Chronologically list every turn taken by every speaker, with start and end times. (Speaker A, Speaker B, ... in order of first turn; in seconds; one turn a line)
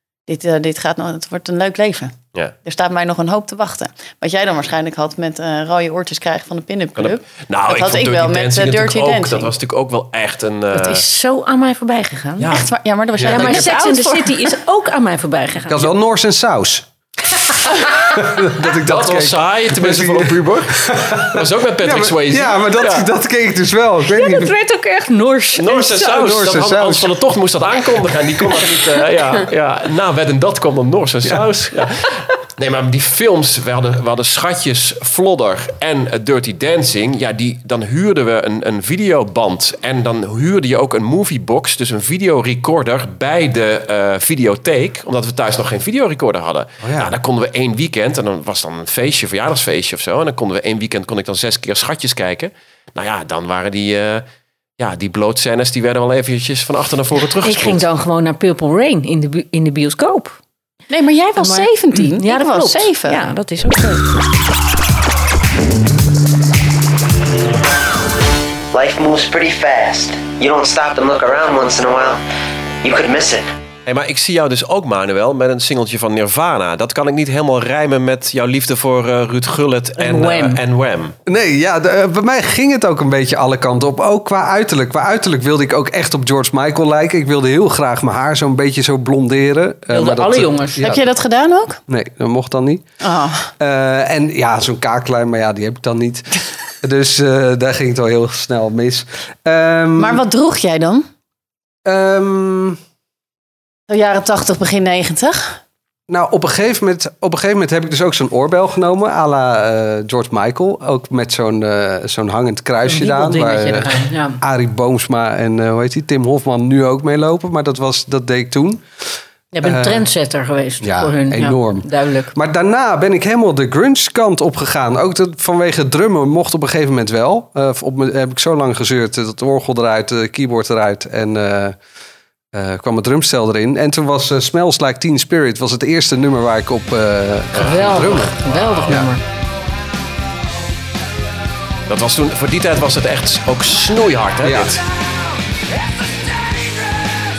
Speaker A: 0.3-9.5
Speaker B: 7.0-11.0
Speaker C: 10.7-12.5
Speaker B: 12.4-12.7
Speaker A: 12.5-14.5
Speaker D: 13.2-13.5
Speaker B: 13.2-13.6
Speaker C: 13.3-15.9
Speaker D: 15.7-24.5
Speaker B: 18.7-23.1
Speaker C: 24.1-26.6
Speaker B: 25.6-54.2
Speaker D: 26.1-27.1
Speaker D: 46.8-47.2
Speaker B: 54.8-57.8
Speaker C: 57.4-60.4
Speaker A: 60.9-63.2
Speaker C: 61.4-64.1
Speaker E: 68.7-72.2
Speaker E: 72.8-73.5
Speaker B: 73.9-81.1
Speaker C: 80.0-80.6
Speaker D: 81.3-91.0
Speaker C: 89.9-90.9
Speaker A: 90.8-91.8
Speaker D: 91.9-92.8
Speaker A: 93.0-93.5
Speaker D: 93.6-100.2
Speaker A: 100.0-101.1
Speaker D: 101.8-102.8
Speaker A: 103.9-105.6
Speaker D: 106.1-118.8
Speaker C: 112.9-114.4
Speaker C: 119.5-122.3
Speaker D: 119.6-120.1
Speaker D: 120.8-131.8
Speaker D: 132.5-139.1
Speaker C: 137.6-139.2
Speaker B: 138.5-138.9
Speaker B: 141.9-144.8
Speaker D: 144.4-144.7